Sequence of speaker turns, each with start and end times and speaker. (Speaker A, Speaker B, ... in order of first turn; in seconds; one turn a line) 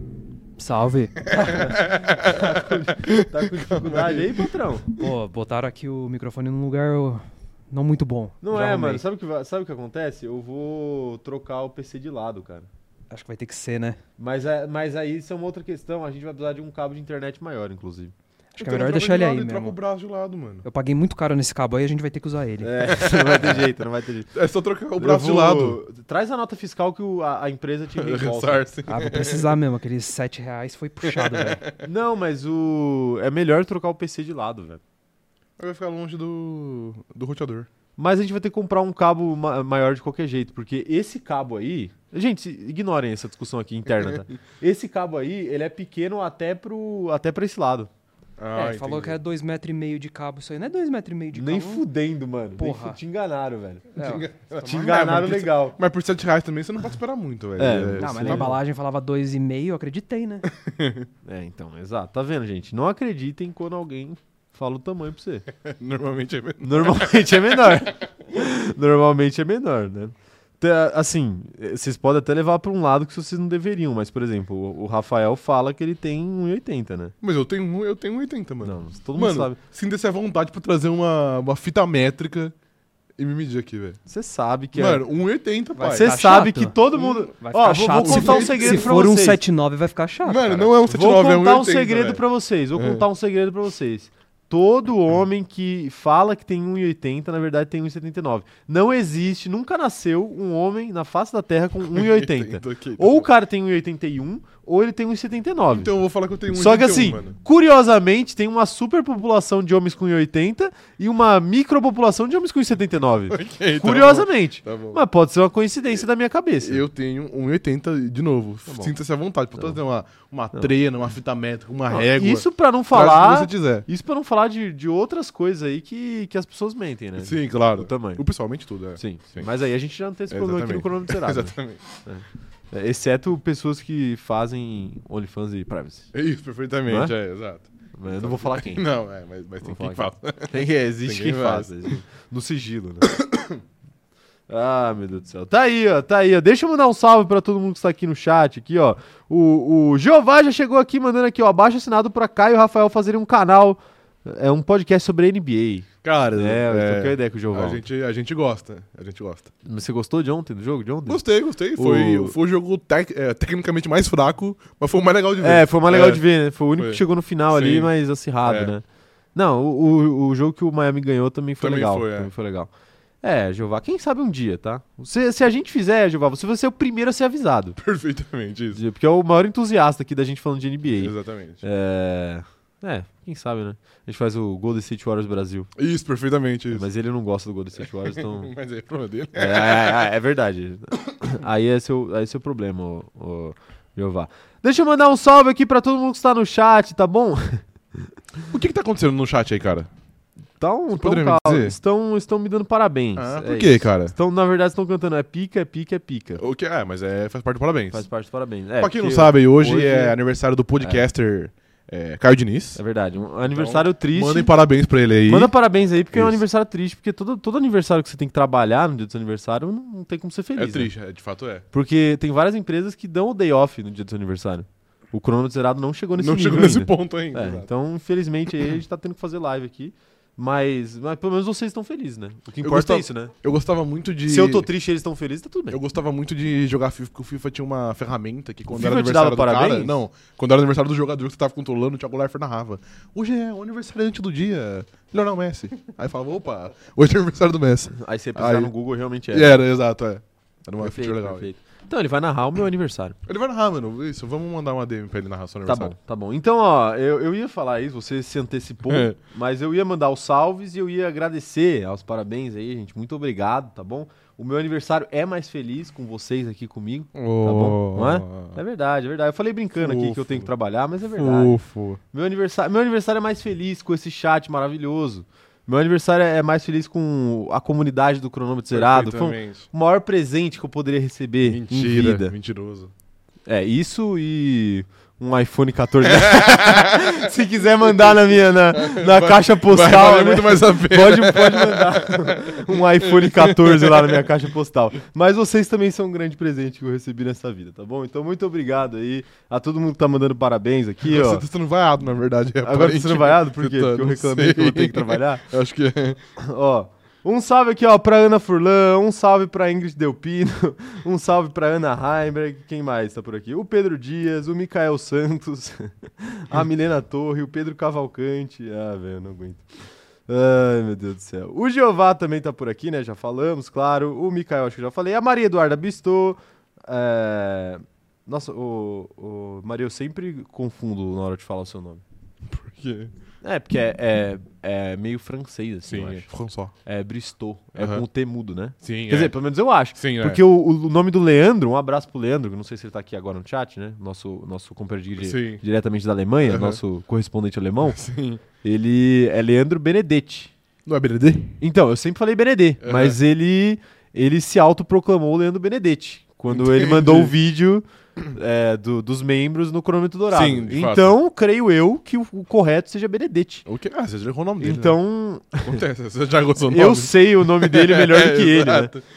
Speaker A: 0.6-1.8
Speaker B: 1.3-5.1
Speaker C: 1.5-4.9
Speaker A: 5.0-9.0
Speaker C: 8.4-12.7
Speaker A: 13.1-14.0
Speaker C: 14.2-18.1
Speaker A: 18.5-19.8
Speaker B: 18.6-20.6
Speaker A: 20.6-22.8
Speaker C: 22.6-24.3
Speaker B: 22.9-23.7
Speaker B: 24.3-25.8
Speaker C: 25.0-28.6
Speaker B: 27.9-29.5
Speaker A: 28.9-31.6
Speaker B: 31.0-31.7
Speaker C: 31.8-34.8
Speaker B: 35.6-37.7
Speaker C: 38.0-47.9
Speaker B: 48.4-49.2
Speaker A: 48.5-51.9
Speaker C: 51.3-53.9
Speaker A: 52.6-53.0
Speaker A: 54.0-55.1
Speaker B: 54.0-58.6
Speaker C: 54.6-55.8
Speaker C: 57.6-58.6
Speaker A: 58.0-60.5
Speaker B: 60.5-61.1
Speaker C: 61.2-65.5
Speaker B: 65.6-67.9
Speaker C: 66.6-77.1
Speaker B: 77.2-82.5
Speaker C: 78.6-79.6
Speaker B: 83.2-84.0
Speaker C: 84.1-85.0
Speaker B: 84.8-86.2
Speaker A: 85.8-86.8
Speaker C: 85.9-89.4
Speaker B: 87.0-87.3
Speaker A: 87.3-90.7
Speaker B: 87.9-89.0
Speaker B: 90.2-92.2
Speaker C: 90.8-105.9
Speaker B: 92.8-93.0
Speaker B: 101.8-103.3
Speaker B: 105.7-107.4
Speaker C: 106.5-116.9
Speaker B: 113.3-115.0
Speaker B: 116.6-123.9
Speaker C: 118.7-118.9
Speaker C: 121.9-128.2
Speaker B: 127.2-129.5
Speaker C: 129.0-136.1
Speaker B: 130.3-131.8
Speaker B: 136.1-142.0
Speaker C: 136.9-137.1
Speaker C: 137.9-138.8
Speaker C: 139.6-143.1
Speaker B: 143.0-143.6
Speaker C: 144.5-157.8
Speaker B: 156.0-159.5
Speaker C: 159.6-161.2
Speaker B: 161.1-166.2
Speaker C: 161.8-162.3
Speaker C: 165.4-168.8
Speaker B: 166.8-167.9
Speaker B: 168.4-168.7
Speaker C: 169.3-172.7
Speaker B: 171.6-172.3
Speaker C: 173.2-177.8
Speaker B: 177.8-178.8
Speaker C: 178.7-185.7
Speaker B: 181.0-181.6
Speaker B: 185.8-186.9
Speaker C: 186.7-188.5
Speaker B: 187.8-190.1
Speaker C: 189.4-198.1
Speaker B: 198.5-199.9
Speaker C: 200.6-206.4
Speaker B: 200.9-201.8
Speaker B: 203.2-204.1
Speaker B: 206.4-208.1
Speaker C: 207.9-210.2
Speaker B: 208.8-212.8
Speaker C: 212.8-214.5
Speaker B: 213.5-215.5
Speaker C: 215.3-220.9
Speaker B: 216.1-216.4
Speaker B: 220.6-221.7
Speaker C: 221.7-233.3
Speaker B: 226.2-227.7
Speaker B: 232.6-234.7
Speaker C: 234.3-235.8
Speaker B: 235.7-248.7
Speaker C: 238.7-240.0
Speaker C: 247.9-249.6
Speaker B: 249.3-251.5
Speaker C: 250.8-253.2
Speaker B: 253.3-255.9
Speaker C: 255.7-282.3
Speaker B: 258.9-259.1
Speaker B: 267.1-268.6
Speaker B: 269.8-270.5
Speaker B: 271.1-272.0
Speaker B: 278.7-279.7
Speaker B: 281.4-282.9
Speaker C: 283.5-301.4
Speaker B: 286.1-287.3
Speaker B: 287.9-288.2
Speaker B: 288.7-294.3
Speaker B: 301.0-306.2
Speaker C: 302.6-305.4
Speaker C: 306.4-319.6
Speaker C: 320.3-332.0
Speaker B: 332.5-333.1
Speaker C: 333.4-336.3
Speaker B: 335.9-336.7
Speaker C: 336.9-348.0
Speaker B: 337.8-338.1
Speaker B: 338.8-339.4
Speaker B: 340.0-340.4
Speaker B: 345.2-345.6
Speaker B: 346.4-346.8
Speaker B: 347.8-348.4
Speaker C: 348.6-350.5
Speaker B: 350.9-351.6
Speaker C: 351.6-363.7
Speaker B: 352.8-353.2
Speaker B: 356.5-357.4
Speaker B: 360.3-361.2
Speaker B: 363.7-365.0
Speaker C: 364.6-365.8
Speaker B: 365.6-369.0
Speaker C: 366.6-368.9